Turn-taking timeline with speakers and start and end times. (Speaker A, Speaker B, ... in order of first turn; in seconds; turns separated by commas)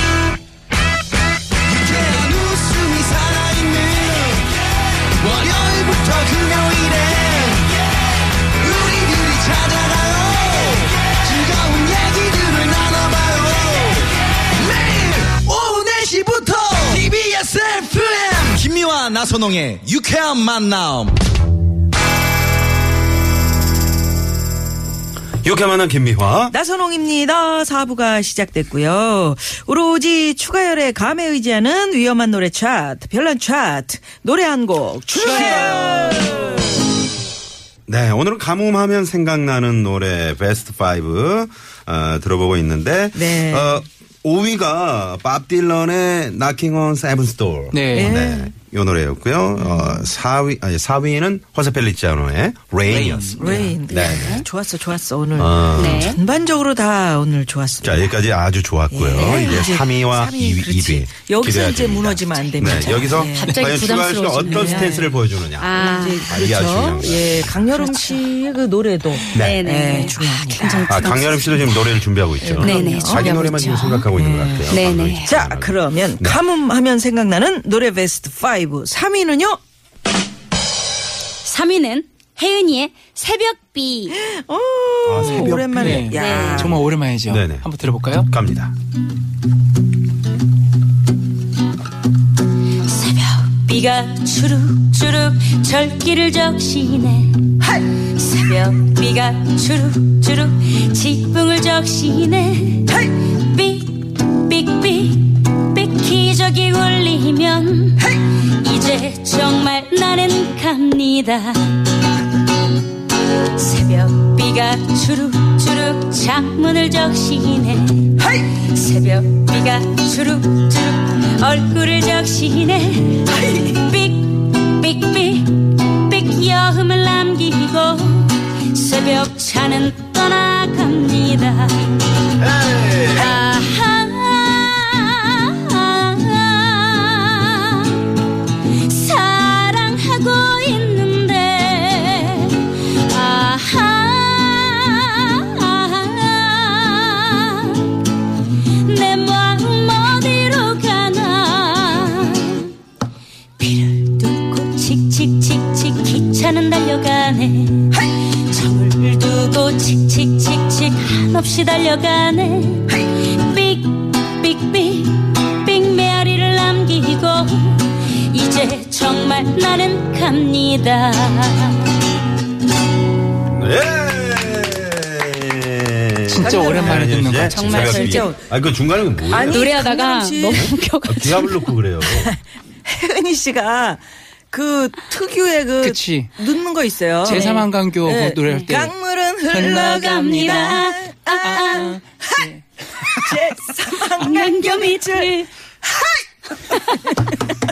Speaker A: 1.7-7.8, Speaker A: 8.4-21.2, Speaker B: 25.4-26.5, Speaker C: 26.5-36.7, Speaker B: 35.2-36.7, Speaker D: 35.2-36.3, Speaker B: 37.9-54.5, Speaker C: 43.1-43.8, Speaker D: 47.7-48.2, Speaker C: 48.0-48.5, Speaker C: 49.6-50.1, Speaker D: 52.9-53.8, Speaker C: 53.4-58.1, Speaker E: 53.9-54.4, Speaker B: 55.4-56.1, Speaker E: 55.8-56.2, Speaker B: 57.8-67.7, Speaker C: 58.9-63.6, Speaker E: 59.2-59.6, Speaker E: 63.4-65.0, Speaker D: 63.4-64.0, Speaker C: 64.4-65.2, Speaker E: 65.6-66.4, Speaker C: 65.8-71.5, Speaker E: 67.8-68.2, Speaker B: 69.3-69.6, Speaker E: 69.3-71.6, Speaker B: 70.9-76.4, Speaker C: 72.4-79.6, Speaker E: 72.6-74.0, Speaker E: 74.7-75.3, Speaker E: 81.4-84.2, Speaker C: 84.1-86.8, Speaker B: 85.0-86.2, Speaker D: 85.2-88.3, Speaker E: 86.1-86.7, Speaker B: 87.3-88.7, Speaker E: 92.9-111.9, Speaker E: 113.5-132.2, Speaker C: 118.2-118.5, Speaker C: 123.4-123.7, Speaker B: 132.4-133.4, Speaker E: 133.0-138.1, Speaker E: 138.8-148.0, Speaker E: 148.8-152.7, Speaker E: 153.6-172.0, Speaker B: 173.4-179.7, Speaker D: 176.3-178.1, Speaker C: 176.4-177.2, Speaker E: 177.5-178.3, Speaker C: 177.9-178.4, Speaker C: 179.2-180.7, Speaker E: 179.5-181.7, Speaker B: 180.5-182.3, Speaker C: 182.0-184.0, Speaker C: 184.5-197.4, Speaker D: 185.8-186.3, Speaker D: 187.2-188.9, Speaker E: 187.3-187.7, Speaker D: 189.5-189.9, Speaker E: 189.6-192.0, Speaker D: 191.7-193.3, Speaker E: 194.1-195.5